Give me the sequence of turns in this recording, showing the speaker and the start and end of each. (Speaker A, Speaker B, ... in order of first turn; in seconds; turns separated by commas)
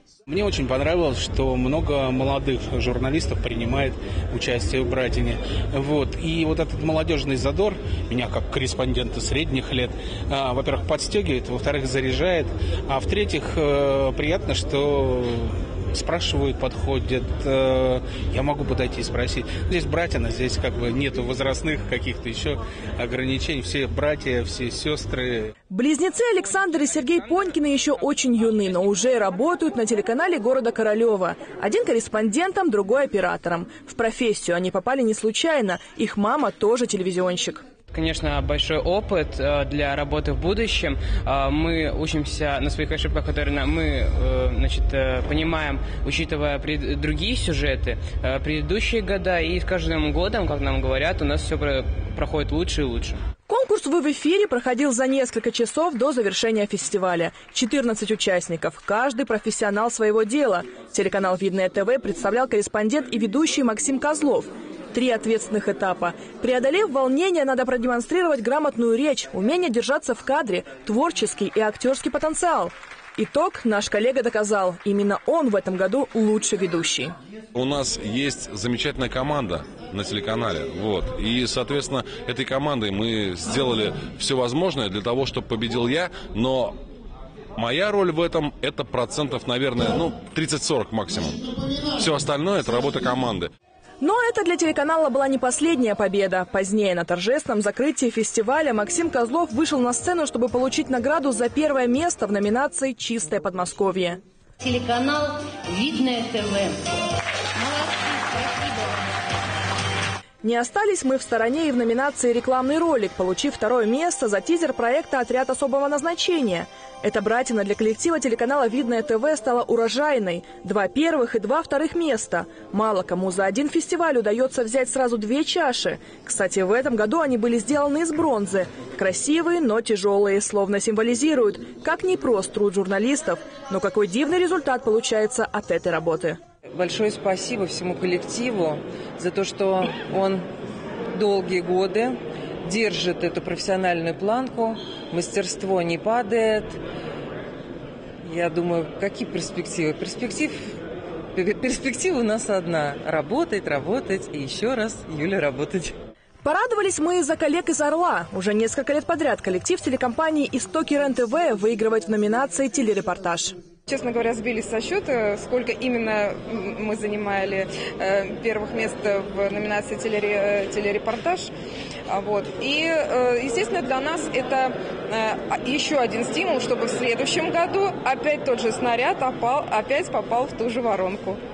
Speaker A: 0.3-25.5, Speaker B: 25.7-37.6, Speaker C: 37.9-53.2, Speaker B: 53.5-77.1, Speaker D: 77.5-86.8, Speaker D: 87.6-93.5, Speaker B: 94.0-104.2, Speaker E: 104.6-106.8, Speaker E: 107.5-109.0, Speaker B: 110.4-136.4, Speaker F: 136.8-140.4, Speaker F: 141.1-142.1, Speaker F: 142.7-146.7, Speaker F: 148.3-150.5, Speaker F: 151.4-155.8, Speaker B: 156.4-163.5, Speaker G: 163.9-171.5, Speaker G: 172.1-181.4